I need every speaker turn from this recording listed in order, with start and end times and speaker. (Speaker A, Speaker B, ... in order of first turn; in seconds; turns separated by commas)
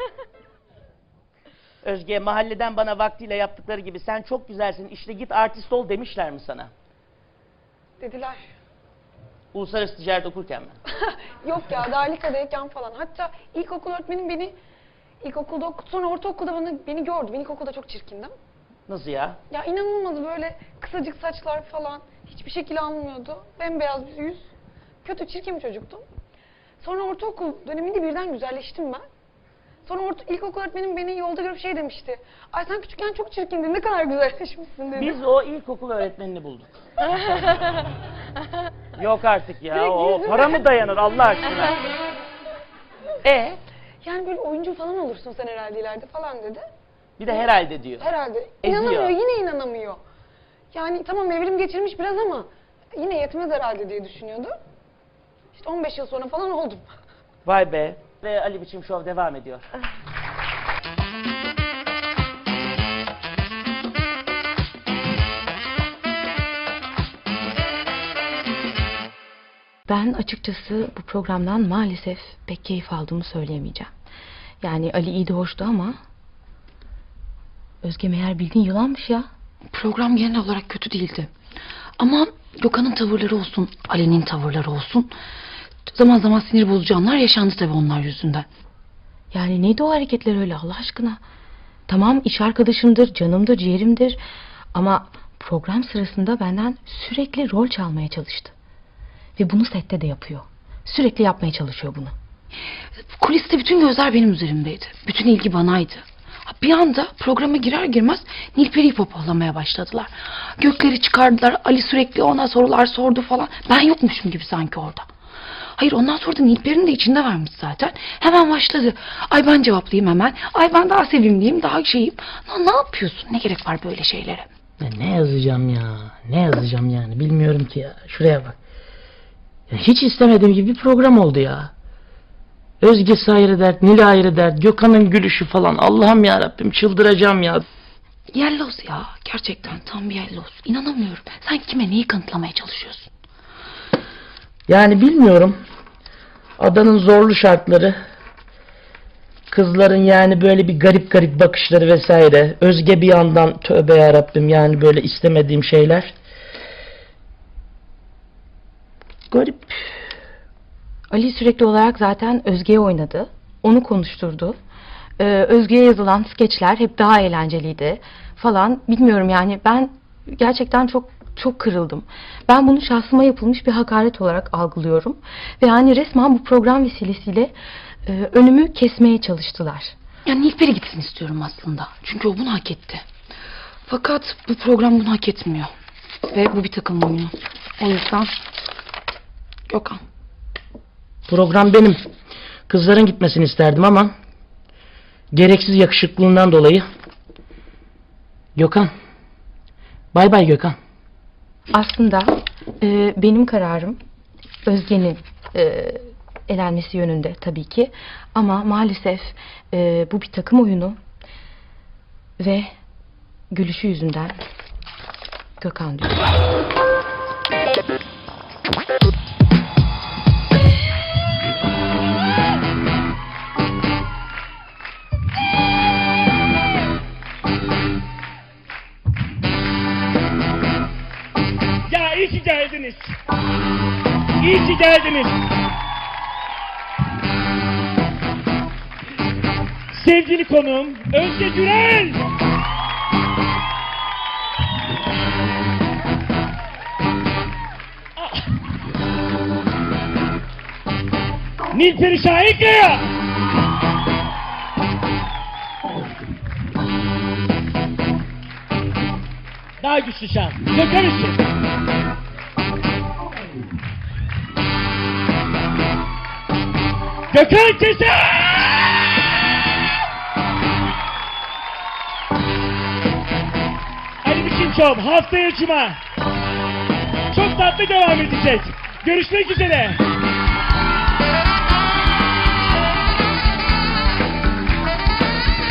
Speaker A: 1.8-6.7, Speaker B: 8.0-8.4, Speaker A: 9.5-10.8, Speaker B: 11.4-14.6, Speaker B: 15.2-18.4, Speaker A: 18.9-19.4, Speaker B: 19.5-24.5, Speaker B: 25.0-26.1, Speaker B: 26.8-29.0, Speaker B: 29.9-35.2, Speaker A: 35.0-36.8, Speaker A: 38.9-41.8, Speaker B: 39.7-40.6, Speaker A: 43.2-43.6, Speaker B: 44.0-46.6, Speaker A: 47.2-48.1, Speaker B: 48.0-50.0, Speaker A: 48.6-49.1, Speaker B: 50.7-54.5, Speaker B: 55.5-56.9, Speaker A: 57.5-59.7, Speaker C: 69.9-73.9, Speaker C: 74.6-76.0, Speaker C: 77.8-79.3, Speaker D: 79.7-81.3, Speaker D: 82.0-85.1, Speaker D: 85.9-88.5, Speaker C: 89.3-91.2, Speaker C: 91.9-94.2, Speaker C: 94.7-98.5, Speaker C: 99.4-102.1, Speaker D: 103.2-115.0, Speaker D: 115.8-124.5, Speaker A: 124.8-128.6, Speaker A: 129.7-131.7, Speaker A: 132.8-137.6, Speaker D: 138.4-143.1, Speaker A: 144.7-145.6, Speaker A: 146.6-148.0, Speaker A: 149.5-156.1, Speaker A: 159.3-159.8, Speaker C: 161.1-164.6, Speaker C: 165.2-177.5, Speaker C: 178.0-179.9, Speaker D: 180.2-183.0, Speaker D: 183.9-185.7, Speaker D: 186.3-188.3, Speaker D: 189.7-190.0, Speaker A: 191.3-192.0, Speaker A: 192.7-194.1, Speaker A: 195.3-196.9, Speaker A: 198.6-198.9, Speaker A: 200.1-200.8, Speaker C: 201.7-204.0, Speaker C: 204.7-211.0, Speaker C: 212.4-212.7, Speaker C: 213.5-214.4, Speaker C: 215.6-216.2, Speaker A: 231.9-232.9, Speaker A: 234.4-235.3, Speaker A: 239.9-242.1, Speaker E: 240.0-240.6, Speaker A: 251.7-252.3, Speaker A: 259.8-261.3, Speaker A: 267.3-268.2, Speaker A: 274.3-275.6, Speaker E: 274.5-276.0, Speaker E: 277.4-279.9, Speaker A: 277.4-278.4, Speaker A: 279.1-279.9